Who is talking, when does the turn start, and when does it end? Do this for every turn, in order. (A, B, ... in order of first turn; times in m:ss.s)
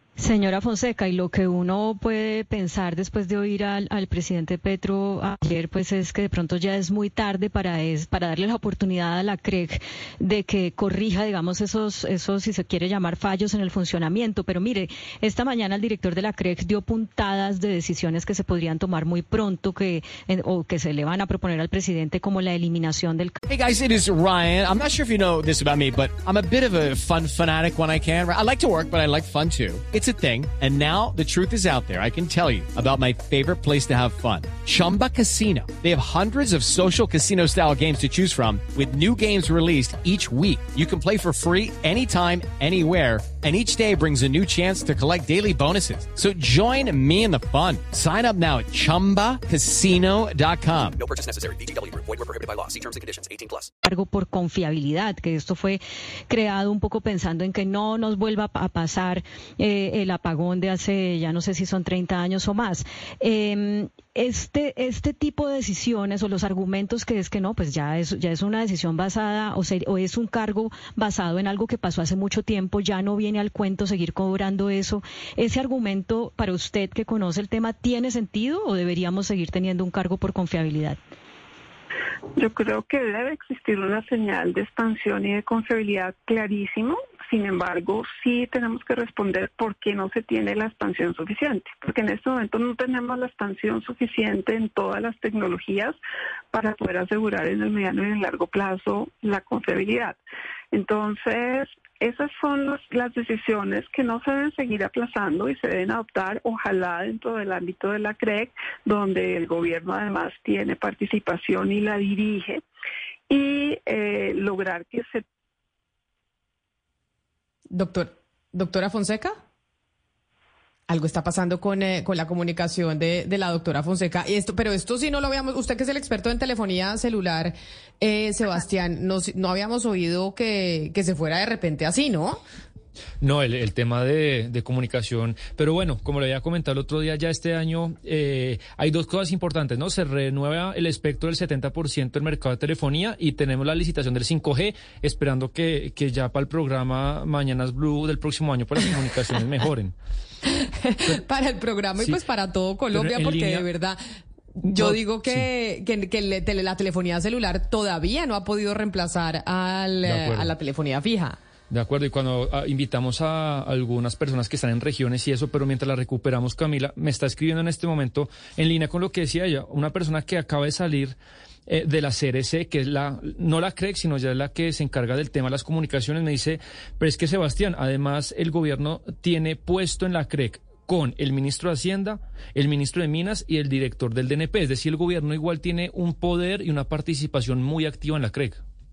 0:00.2-0:23.4 A
0:23.5-0:51.0 B
0:51.0-0:53.7 C
0:53.8-1:21.0 A
1:22.4-1:36.0 D
1:36.5-1:40.2 D
1:40.7-1:52.6 D
1:53.3-1:55.2 D
1:57.7-1:59.4 E
2:00.9-2:12.4 E
2:13.2-2:29.9 F
2:30.4-2:34.0 E
2:32.9-2:33.6 F
2:34.6-2:41.4 E
2:34.6-2:35.5 F
2:40.0-2:40.5 F
2:41.7-3:08.6 F